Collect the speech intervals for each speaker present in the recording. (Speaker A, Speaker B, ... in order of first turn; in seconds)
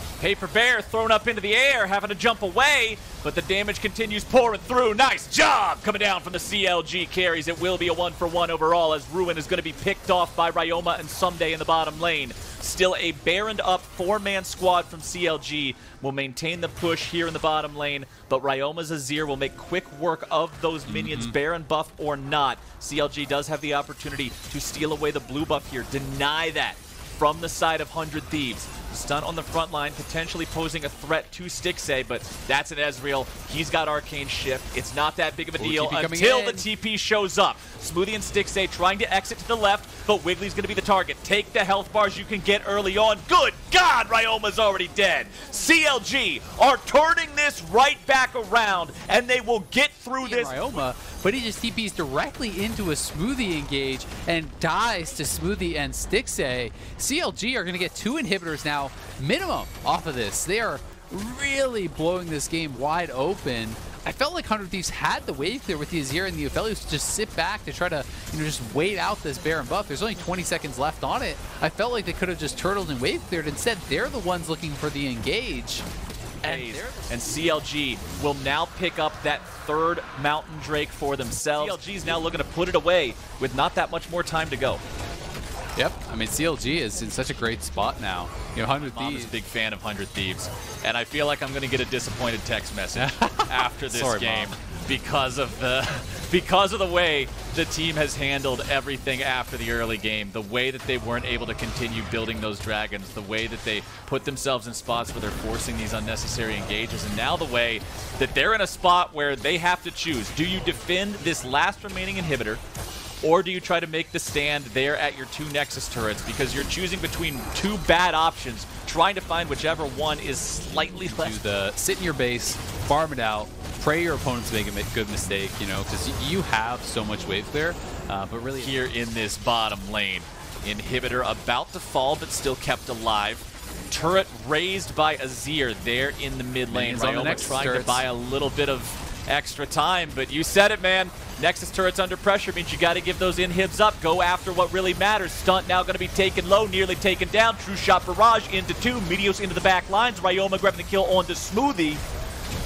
Speaker A: 0.2-50.8, 76.4-84.8, 88.8-112.6, 113.2-121.4, 128.5-152.0
Speaker B: 20.9-21.4, 35.6-36.6, 50.2-75.8, 76.4-77.2, 81.5-81.8, 85.8-89.3, 93.0-94.5, 121.1-128.8, 136.7-138.0